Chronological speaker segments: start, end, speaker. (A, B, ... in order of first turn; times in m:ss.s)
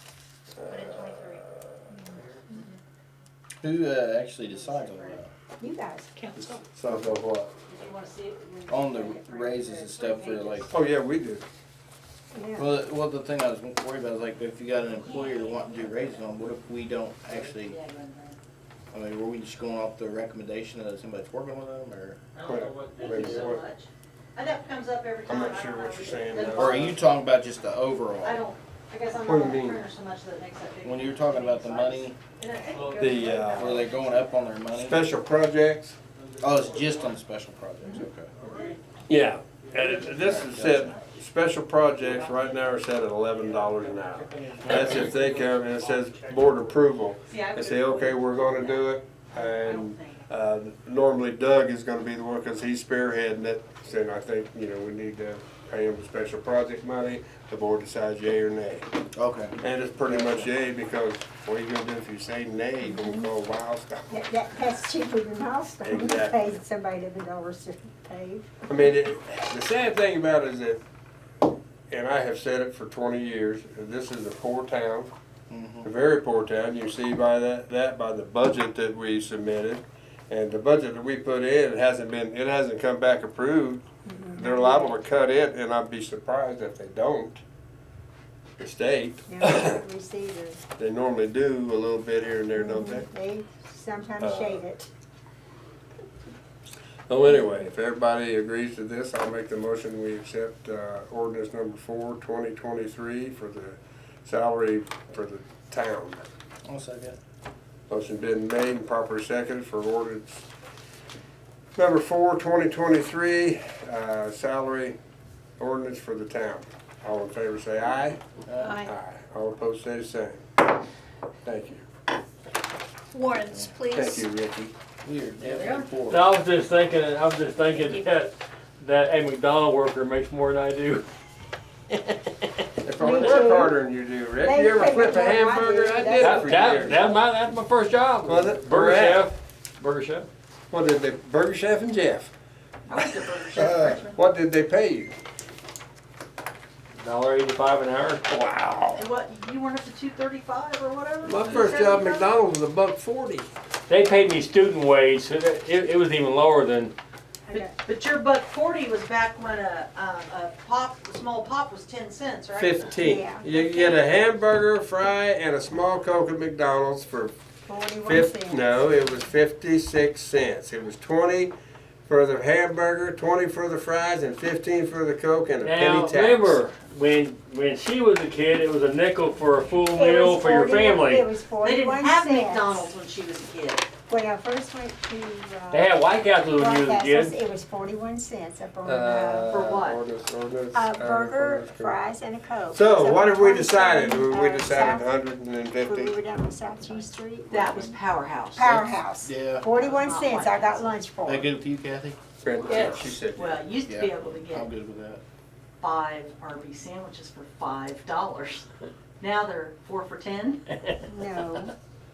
0:00.6-0:02.0 A
0:00.7-0:02.8 B
0:03.6-0:05.3 C
0:04.5-0:05.2 B
0:05.6-0:06.4 D
0:06.2-0:06.6 E
0:06.4-0:07.5 A
0:07.7-0:10.8 B
0:08.7-0:10.7 C
0:10.7-0:11.4 A
0:12.3-0:12.7 D
0:12.6-0:17.8 C
0:14.8-0:16.3 B
0:17.3-0:18.4 B
0:18.9-0:22.2 C
0:22.4-0:23.6 F
0:22.4-0:23.6 A
0:23.0-0:27.1 B
0:25.3-0:26.9 A
0:26.5-0:28.4 C
0:28.2-0:34.4 B
0:29.2-0:29.8 A
0:30.8-0:32.2 C
0:32.7-0:33.7 F
0:33.0-0:33.8 A
0:33.6-0:35.0 C
0:34.7-0:36.0 A
0:36.2-0:37.1 F
0:36.4-0:38.3 C
0:38.4-0:40.4 F
0:39.1-0:58.8 A
0:40.2-0:40.9 C
0:42.0-0:46.7 F
0:44.6-0:45.2 C
0:47.3-0:50.2 B
0:59.2-1:00.5 C
0:59.6-1:04.2 A
1:02.8-1:03.3 D
1:04.1-1:08.5 D
1:05.8-1:06.6 A
1:08.7-1:10.8 A
1:11.9-1:15.1 A
1:15.5-1:15.9 C
1:15.8-1:27.4 A
1:24.0-1:25.0 D
1:28.6-1:29.8 A
1:29.3-1:30.6 D
1:30.8-1:33.1 A
1:32.6-1:34.9 D
1:34.2-1:34.6 A
1:37.1-1:46.2 A
1:46.6-1:47.2 C
1:47.9-1:50.5 A
1:51.8-1:55.0 A
1:55.6-2:00.4 A
1:58.4-1:58.8 C
1:58.6-1:58.9 E
2:01.4-2:01.8 A
2:03.1-2:04.3 E
2:03.4-2:03.8 C
2:03.9-2:04.7 A
2:05.0-2:06.3 C
2:05.4-2:05.9 B
2:06.1-2:11.0 F
2:12.8-2:17.1 A
2:13.0-2:13.7 D
2:14.4-2:17.2 D
2:16.2-2:20.3 F
2:18.3-2:19.3 A
2:20.7-2:22.3 A
2:22.9-2:24.2 B
2:23.5-2:25.1 A
2:27.0-2:28.3 F
2:28.3-2:29.0 A
2:29.0-2:32.3 B
2:31.2-2:33.5 A
2:33.9-2:37.0 F
2:37.5-2:37.7 D
2:37.5-2:42.9 B
2:42.6-2:47.3 A
2:42.9-2:44.0 D
2:47.7-2:49.2 D
2:48.0-2:51.5 A
2:52.1-2:56.6 A
2:55.6-3:01.3 F
2:59.8-3:02.9 D
3:01.6-3:03.9 B
3:04.1-3:05.9 D
3:05.7-3:07.4 F
3:06.5-3:09.6 D
3:08.8-3:12.0 A
3:09.5-3:10.0 B
3:10.7-3:15.1 D
3:12.7-3:16.2 A
3:15.8-3:18.0 D
3:17.5-3:18.8 B
3:18.6-3:21.5 D
3:18.8-3:19.7 C
3:19.7-3:21.0 B
3:21.2-3:22.2 C
3:22.4-3:23.6 A
3:22.6-3:24.7 B
3:23.9-3:25.2 C
3:25.8-3:28.7 B
3:29.2-3:30.6 B
3:31.0-3:31.7 D